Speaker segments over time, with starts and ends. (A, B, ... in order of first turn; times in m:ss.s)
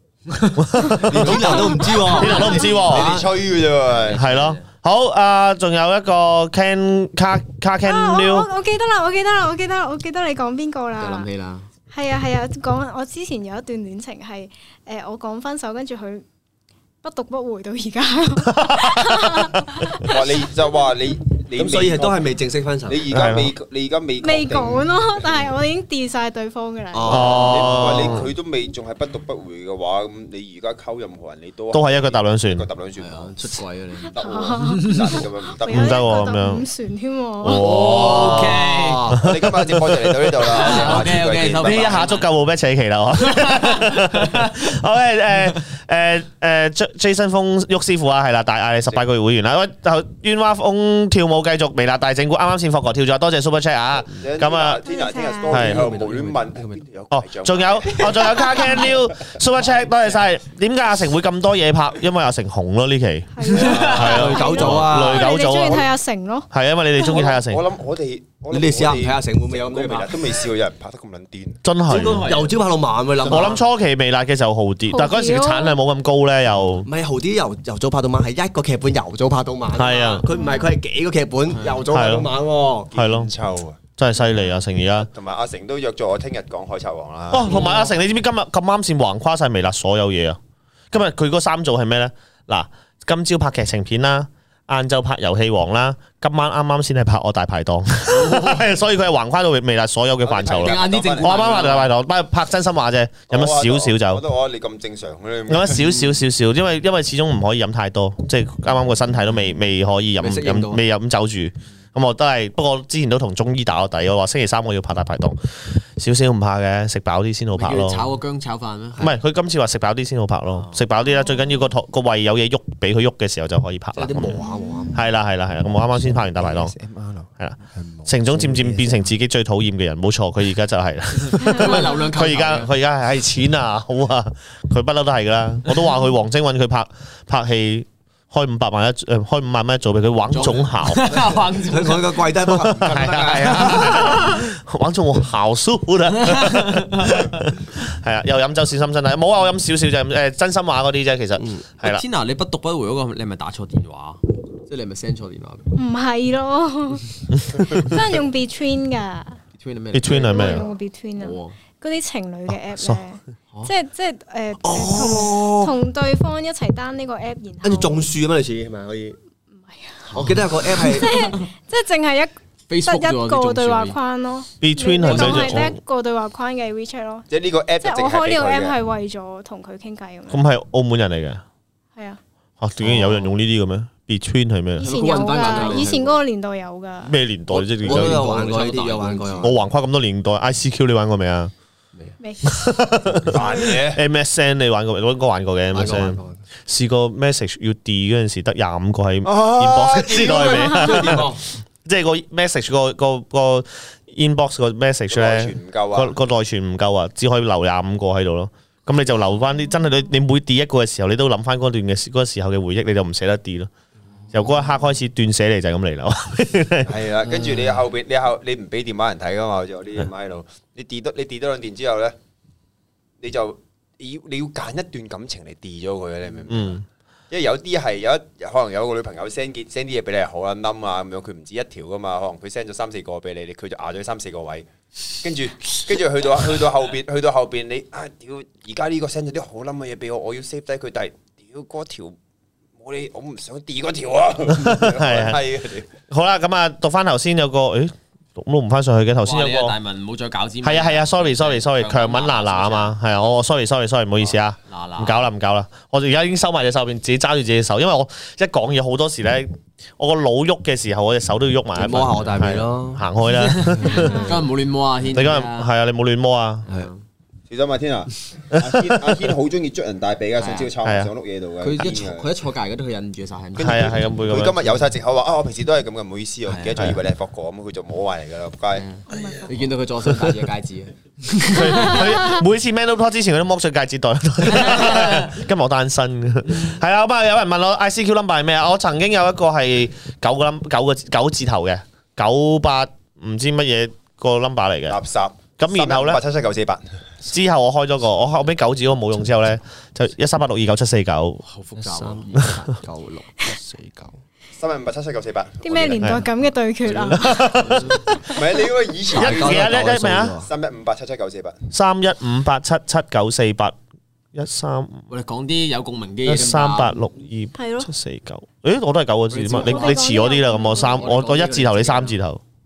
0:00.3-0:00.6 A
0:00.6-0:03.2 B
0:00.7-0:02.9 C
0:01.0-0:03.3 D
0:01.1-0:01.9 E
0:02.9-0:04.2 E
0:04.0-0:04.6 A
0:04.1-0:08.5 B
0:07.8-0:11.3 C
0:11.0-0:11.6 A
0:11.9-0:16.2 C
0:17.0-0:20.2 C
0:18.4-0:19.8 B
0:20.0-0:22.3 E
0:21.5-0:23.1 D
0:22.9-0:24.9 E
0:23.1-0:23.5 B
0:24.2-0:27.5 C
0:26.9-0:28.0 D
0:27.1-0:28.3 B
0:27.3-0:33.4 E
0:31.7-0:32.7 B
0:33.0-0:34.1 A
0:34.0-0:37.6 C
0:34.0-0:36.0 E
0:34.7-0:35.1 A
0:35.7-0:36.6 B
0:37.4-0:38.5 B
0:37.6-0:39.2 A
0:37.9-0:39.2 D
0:39.1-0:41.0 B
0:39.2-0:42.0 E
0:40.4-0:42.3 A
0:41.6-0:54.8 B
0:43.2-0:44.6 A
0:54.2-0:58.6 E
0:54.8-0:55.6 C
0:55.5-0:55.8 B
0:55.6-0:56.8 D
0:57.1-1:05.9 B
1:03.3-1:07.2 C
1:03.5-1:04.2 A
1:03.6-1:04.2 E
1:04.0-1:05.3 D
1:06.5-1:07.6 B
1:07.0-1:11.6 E
1:08.5-1:10.3 D
1:11.6-1:12.3 B
1:11.9-1:13.6 D
1:11.9-1:12.6 A
1:13.2-1:13.6 E
1:13.2-1:16.9 B
1:14.9-1:15.8 C
1:16.8-1:22.9 D
1:19.7-1:20.3 B
1:20.3-1:20.7 C
1:21.9-1:22.3 B
1:22.9-1:23.8 E
1:22.9-1:23.3 B
1:24.0-1:25.1 B
1:25.0-1:27.6 E
1:27.3-1:30.4 B
1:27.5-1:27.8 A
1:30.9-1:44.2 B
1:38.1-1:38.6 A
1:40.2-1:41.7 E
1:40.6-1:41.9 A
1:43.3-1:46.1 E
1:45.5-1:58.1 B
1:50.2-1:50.8 D
1:57.5-1:59.1 A
1:59.0-2:04.4 B
2:04.0-2:05.0 D
2:04.4-2:05.0 C
2:04.9-2:06.7 B
2:06.0-2:08.2 E
2:07.4-2:21.1 B
2:08.5-2:08.8 D
2:11.3-2:12.7 A
2:11.4-2:11.9 C
2:20.3-2:22.3 A
2:21.6-2:24.3 D
2:22.5-2:32.0 B
2:26.2-2:27.1 A
2:31.8-2:35.7 A
2:35.7-2:39.4 C
2:37.5-2:37.8 B
2:39.6-2:41.6 A
2:39.9-2:40.6 B
2:40.3-2:48.0 C
2:42.5-2:43.0 B
2:44.6-2:45.7 D
2:47.6-2:49.2 D
2:49.6-2:50.1 C
2:50.1-2:50.4 A
2:50.1-2:51.3 D
2:50.7-2:52.3 C
2:52.7-2:54.0 A
2:52.8-2:57.3 C
2:54.6-2:55.8 B
2:55.1-2:55.5 A
2:57.3-2:58.8 E
2:57.8-3:00.5 C
3:00.3-3:01.4 B
3:02.6-3:04.9 B
3:02.9-3:03.2 A
3:04.8-3:07.2 C
3:04.8-3:06.2 A
3:05.4-3:05.8 D
3:07.0-3:08.2 B
3:07.6-3:09.6 D
3:07.8-3:09.5 A
3:09.4-3:11.5 B
3:12.2-3:12.8 C
3:12.4-3:33.7 B
3:13.2-3:14.0 E
3:15.7-3:16.4 D
3:19.2-3:21.3 E
3:20.1-3:21.4 D
3:25.1-3:26.1 E
3:34.3-3:37.0 B
3:36.8-3:42.2 E
3:37.3-3:37.8 A
3:43.2-3:46.8 E
3:46.5-3:46.8 B
3:47.3-3:54.7 E
3:55.2-4:02.2 E
4:02.8-4:05.9 E
4:04.5-4:05.5 B
4:06.1-4:09.8 B
4:09.2-4:12.9 A
4:10.6-4:24.2 B
4:14.3-4:15.2 A
4:21.7-4:23.1 D
4:23.3-4:25.7 A
4:23.8-4:24.4 C
4:25.1-4:26.7 B
4:27.5-4:32.2 E
4:30.4-4:30.7 A
4:30.8-4:31.1 B
4:31.6-4:34.1 A
4:33.6-4:38.8 E
4:33.6-4:34.6 B
4:36.5-4:36.9 A
4:38.7-4:42.0 A
4:39.1-4:39.5 C
4:41.5-4:55.0 B
4:41.7-4:42.4 C
4:44.5-4:45.3 A
4:54.9-4:56.8 E
4:55.6-4:56.2 B
4:57.2-5:01.4 B
5:01.4-5:02.4 A
5:01.8-5:04.2 D
5:04.6-5:06.2 E
5:05.6-5:07.5 C
5:07.1-5:08.3 B
5:07.7-5:08.0 A
5:08.2-5:09.8 E
5:09.1-5:10.5 D
5:09.2-5:10.3 B
5:10.4-5:11.6 E
5:11.7-5:13.8 B
5:14.3-5:15.0 B
5:15.1-5:17.0 A
5:16.2-5:22.4 B
5:17.5-5:17.9 C
5:19.3-5:20.1 A
5:19.5-5:21.2 C
5:20.7-5:22.2 A